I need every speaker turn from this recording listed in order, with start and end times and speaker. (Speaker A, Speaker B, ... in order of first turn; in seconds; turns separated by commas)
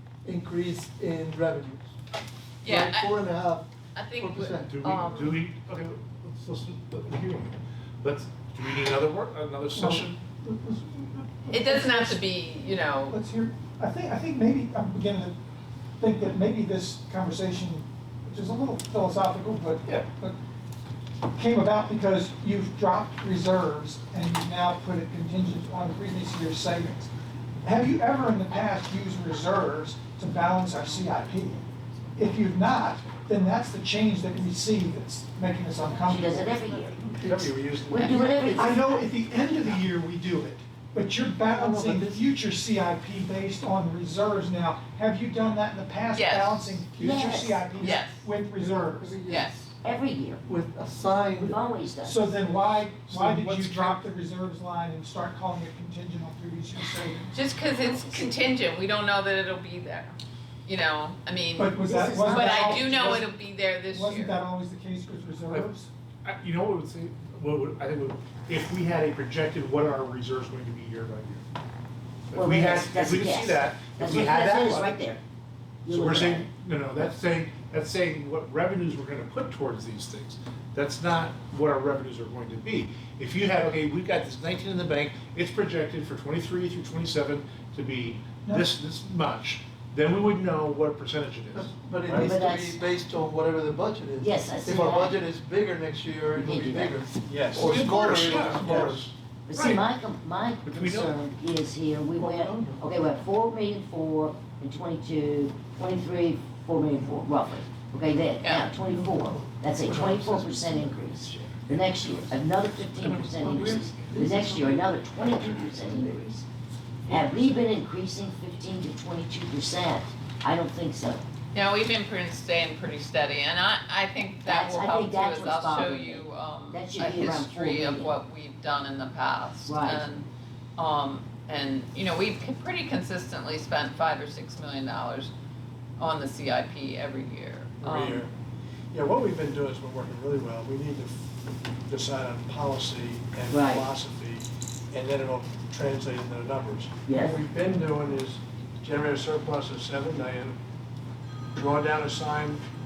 Speaker A: 0.2-1.9, Speaker B: 2.6-3.1, Speaker A: 2.6-4.9, Speaker B: 4.0-5.4, Speaker C: 4.7-10.2, Speaker A: 9.8-10.1, Speaker D: 9.8-12.3, Speaker A: 10.6-11.0, Speaker B: 11.5-13.2, Speaker D: 13.1-15.4, Speaker D: 16.0-20.4, Speaker D: 21.3-27.1, Speaker D: 27.6-36.6, Speaker E: 36.0-37.1, Speaker A: 37.2-37.6, Speaker C: 37.3-38.5, Speaker F: 37.6-37.9, Speaker E: 37.9-38.9, Speaker B: 38.0-38.5, Speaker D: 38.6-49.2, Speaker A: 41.5-42.3, Speaker B: 46.1-46.8, Speaker E: 47.0-47.7, Speaker A: 47.8-49.7, Speaker B: 47.8-48.3, Speaker B: 49.2-49.5, Speaker E: 49.8-50.4, Speaker A: 50.5-51.6, Speaker E: 51.4-52.5, Speaker D: 52.0-57.3, Speaker C: 53.1-54.0, Speaker B: 57.3-64.4, Speaker D: 61.6-63.4, Speaker D: 63.9-65.9, Speaker C: 66.2-71.5, Speaker C: 72.3-75.2, Speaker E: 72.3-75.2, Speaker E: 75.8-76.5, Speaker C: 75.9-92.2, Speaker D: 88.4-88.7, Speaker A: 91.5-99.1, Speaker E: 92.1-92.8, Speaker E: 94.2-95.2, Speaker E: 96.3-97.0, Speaker C: 97.3-99.1, Speaker E: 99.5-116.5, Speaker C: 100.6-101.2, Speaker A: 102.2-102.9, Speaker B: 108.4-108.7, Speaker A: 108.8-112.3, Speaker A: 112.9-115.1, Speaker A: 115.7-116.2, Speaker E: 117.1-121.2, Speaker B: 121.5-135.3, Speaker E: 124.5-128.2, Speaker E: 129.7-130.1, Speaker B: 136.0-138.3, Speaker C: 137.8-138.3, Speaker F: 138.9-141.3, Speaker F: 141.9-150.6, Speaker E: 143.5-143.9, Speaker E: 147.1-147.4, Speaker F: 151.6-152.6